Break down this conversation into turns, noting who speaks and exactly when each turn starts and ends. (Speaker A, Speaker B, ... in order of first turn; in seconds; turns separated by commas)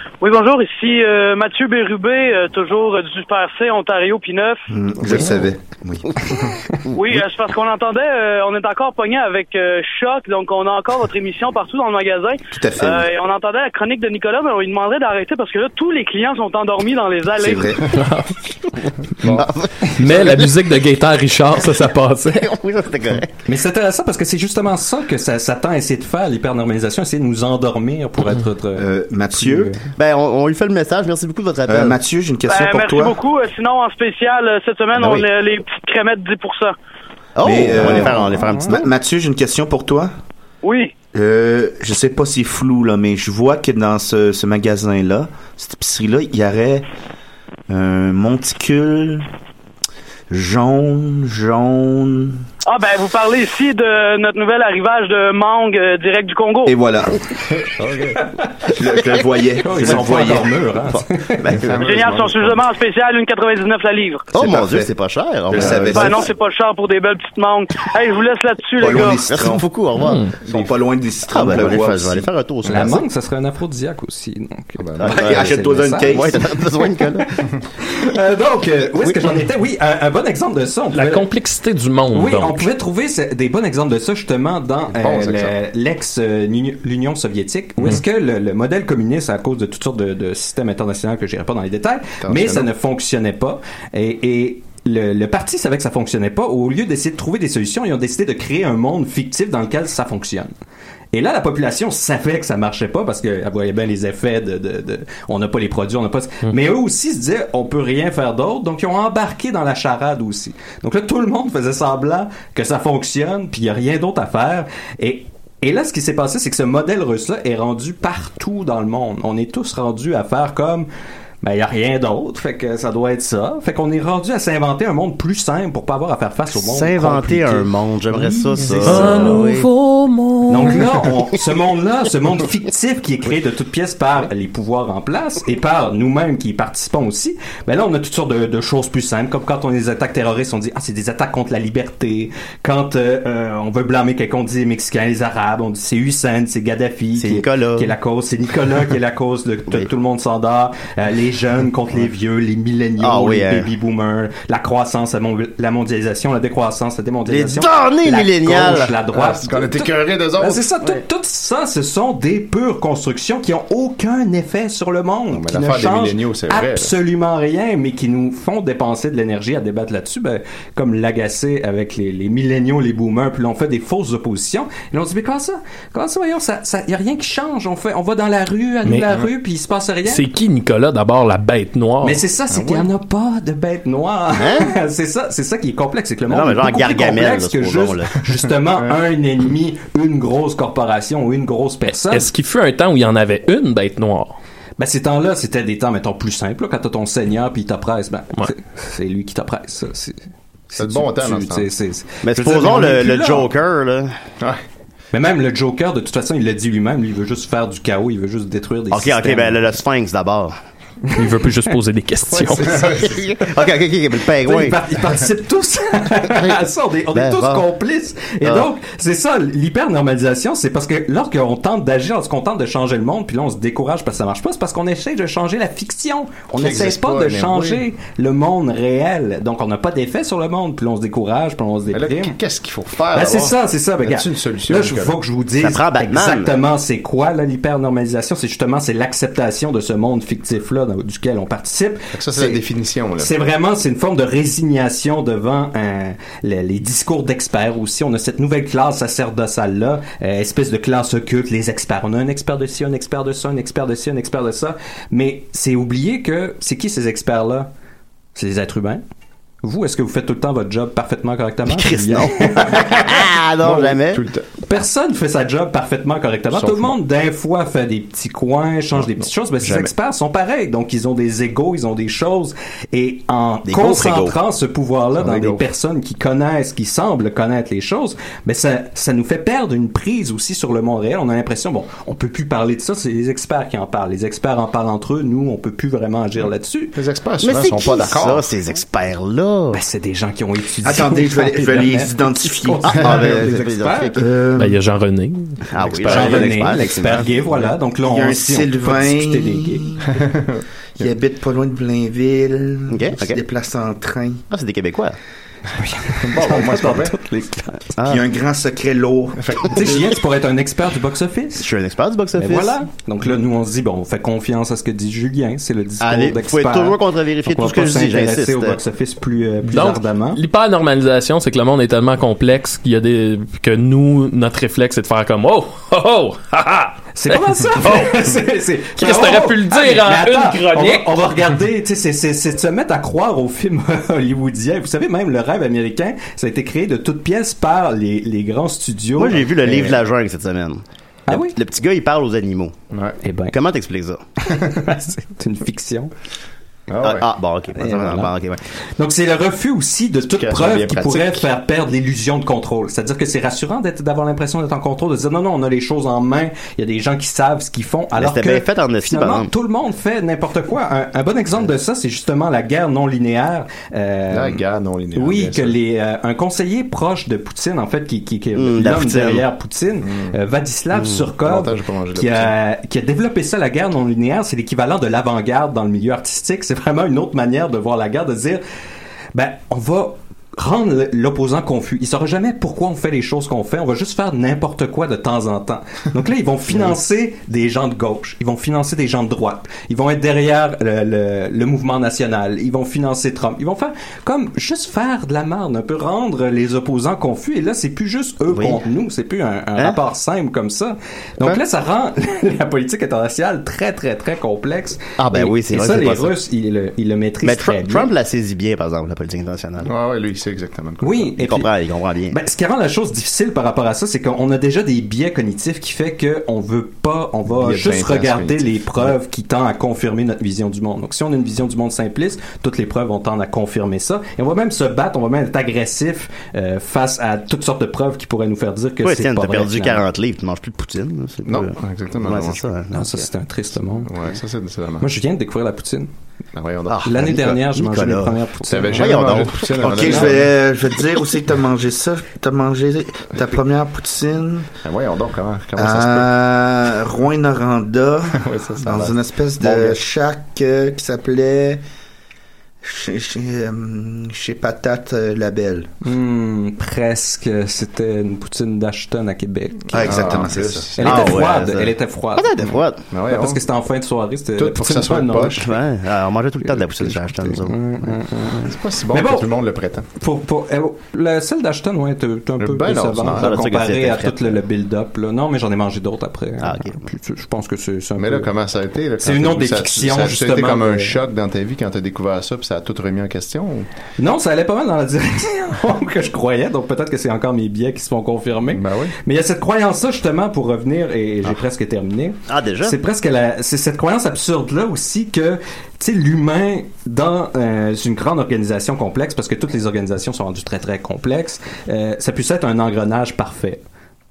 Speaker A: 0.2-4.7, Speaker B: 4.7-6.1, Speaker A: 6.9-17.8, Speaker B: 12.5-13.1, Speaker B: 17.4-17.9, Speaker C: 17.9-18.4, Speaker D: 19.2-19.5, Speaker E: 19.2-20.5, Speaker C: 19.9-22.5, Speaker E: 22.4-23.3, Speaker F: 23.5-29.8, Speaker B: 28.8-29.7, Speaker E: 30.0-32.0, Speaker B: 31.7-33.2, Speaker A: 32.5-36.8, Speaker E: 35.0-35.2, Speaker E: 37.4-38.8, Speaker B: 37.4-40.1, Speaker F: 37.8-38.8, Speaker A: 40.6-40.9, Speaker B: 41.1-46.9, Speaker B: 47.7-49.3, Speaker B: 50.3-52.4, Speaker A: 52.7-56.8, Speaker B: 56.7-57.2, Speaker D: 57.6-58.2, Speaker B: 58.7-60.5, Speaker F: 59.6-61.6, Speaker E: 60.9-61.9, Speaker D: 61.5-62.6, Speaker A: 61.8-64.3, Speaker B: 64.3-64.9, Speaker E: 64.3-66.2, Speaker B: 65.5-66.3, Speaker D: 65.6-65.9, Speaker A: 65.9-69.2, Speaker B: 68.8-69.6, Speaker E: 69.1-70.4, Speaker C: 70.0-70.3, Speaker B: 70.5-72.3, Speaker E: 71.3-73.1, Speaker F: 72.7-76.7, Speaker D: 74.8-75.2, Speaker E: 75.0-77.3, Speaker B: 75.1-76.4, Speaker F: 77.8-81.3, Speaker C: 80.9-82.7, Speaker F: 82.1-100.5, Speaker D: 84.9-85.5, Speaker D: 92.2-92.7, Speaker F: 101.1-120.9, Speaker F: 121.4-127.7, Speaker E: 126.5-129.7, Speaker C: 128.1-130.9, Speaker F: 128.8-129.3, Speaker F: 130.5-180.2, Speaker E: 147.2-147.9, Speaker E: 153.0-153.7, Speaker E: 157.3-159.0, Speaker D: 159.1-160.7, Speaker D: 165.3-166.9, Speaker C: 178.8-179.1, Speaker C: 180.1-182.2, Speaker F: 182.0-192.3, Speaker D: 182.5-182.9, Speaker E: 184.3-184.7, Speaker E: 186.3-188.1, Speaker C: 192.1-194.4, Speaker F: 194.8-200.2, Speaker F: 200.7-203.5, Speaker D: 200.8-201.7, Speaker E: 202.2-204.1, Speaker F: 205.1-209.6, Speaker E: 208.9-210.5, Speaker C: 211.2-212.8, Speaker D: 212.3-213.3, Speaker E: 213.0-214.8, Speaker F: 214.4-232.3, Speaker E: 217.1-217.7, Speaker D: 226.5-227.8, Speaker D: 231.9-235.2, Speaker F: 233.1-242.6, Speaker E: 235.6-236.5, Speaker D: 242.1-243.3, Speaker F: 243.2-257.7, Speaker F: 258.4-259.0, Speaker F: 259.6-263.3, Speaker E: 261.7-264.3, Speaker D: 263.6-264.5, Speaker F: 264.7-286.9, Speaker D: 266.5-266.9, Speaker D: 269.0-269.9, Speaker E: 273.7-274.4, Speaker D: 275.2-275.6, Speaker D: 286.9-288.5, Speaker E: 287.4-289.8, Speaker F: 289.7-294.2, Speaker B: 290.8-293.1, Speaker E: 292.9-294.2, Speaker B: 294.2-294.8, Speaker C: 294.6-295.7, Speaker E: 295.7-297.3, Speaker D: 295.9-296.5, Speaker F: 296.0-299.9, Speaker B: 298.0-300.1, Speaker D: 300.1-301.1, Speaker B: 301.0-304.4, Speaker E: 302.9-303.4, Speaker E: 304.5-305.2, Speaker F: 305.8-307.9, Speaker D: 306.2-307.2, Speaker E: 308.0-308.2, Speaker B: 308.0-309.4, Speaker D: 309.4-310.2, Speaker F: 309.7-311.7, Speaker E: 311.6-312.8, Speaker F: 312.4-320.4, Speaker E: 316.0-318.8, Speaker C: 319.7-328.3, Speaker F: 327.1-339.5, Speaker C: 329.0-331.2, Speaker E: 339.2-342.8, Speaker F: 341.3-341.6, Speaker D: 342.9-343.2, Speaker F: 343.2-343.6, Speaker E: 343.5-344.2, Speaker F: 344.5-346.1, Speaker D: 346.9-347.3, Speaker E: 347.0-348.6, Speaker F: 347.8-348.3, Speaker F: 349.0-364.6, Speaker D: 350.3-351.4, Speaker E: 358.1-359.5, Speaker D: 364.3-365.8, Speaker F: 365.1-378.6, Speaker E: 368.6-369.5, Speaker D: 370.0-370.4, Speaker D: 371.4-372.5, Speaker F: 379.3-408.1, Speaker E: 398.5-398.8, Speaker E: 405.2-406.4, Speaker E: 407.4-409.9, Speaker D: 409.9-411.3, Speaker F: 411.0-411.7, Speaker E: 411.4-412.4, Speaker F: 412.3-430.0, Speaker D: 417.5-419.1, Speaker E: 429.0-433.2, Speaker D: 431.4-432.6, Speaker F: 432.9-434.1, Speaker D: 434.1-435.1, Speaker F: 435.0-436.1, Speaker D: 436.6-437.1, Speaker E: 436.9-440.2, Speaker F: 437.1-440.3, Speaker D: 438.7-440.4, Speaker B: 439.8-444.7, Speaker D: 444.8-446.3, Speaker B: 445.8-451.8, Speaker D: 448.4-449.9, Speaker B: 452.8-455.9, Speaker F: 456.0-460.4, Speaker B: 459.9-460.9, Speaker D: 460.0-461.4, Speaker F: 461.0-462.5, Speaker E: 461.0-463.1, Speaker D: 463.1-463.6, Speaker F: 463.3-465.7, Speaker D: 464.6-465.7, Speaker E: 465.6-467.8, Speaker F: 466.8-469.5, Speaker D: 468.6-470.1, Speaker F: 470.2-478.5, Speaker D: 472.6-473.6, Speaker E: 473.3-474.6, Speaker E: 476.6-477.0, Speaker D: 478.2-483.9, Speaker F: 479.2-481.2, Speaker F: 484.2-503.8, Speaker D: 488.7-489.1, Speaker E: 492.5-493.0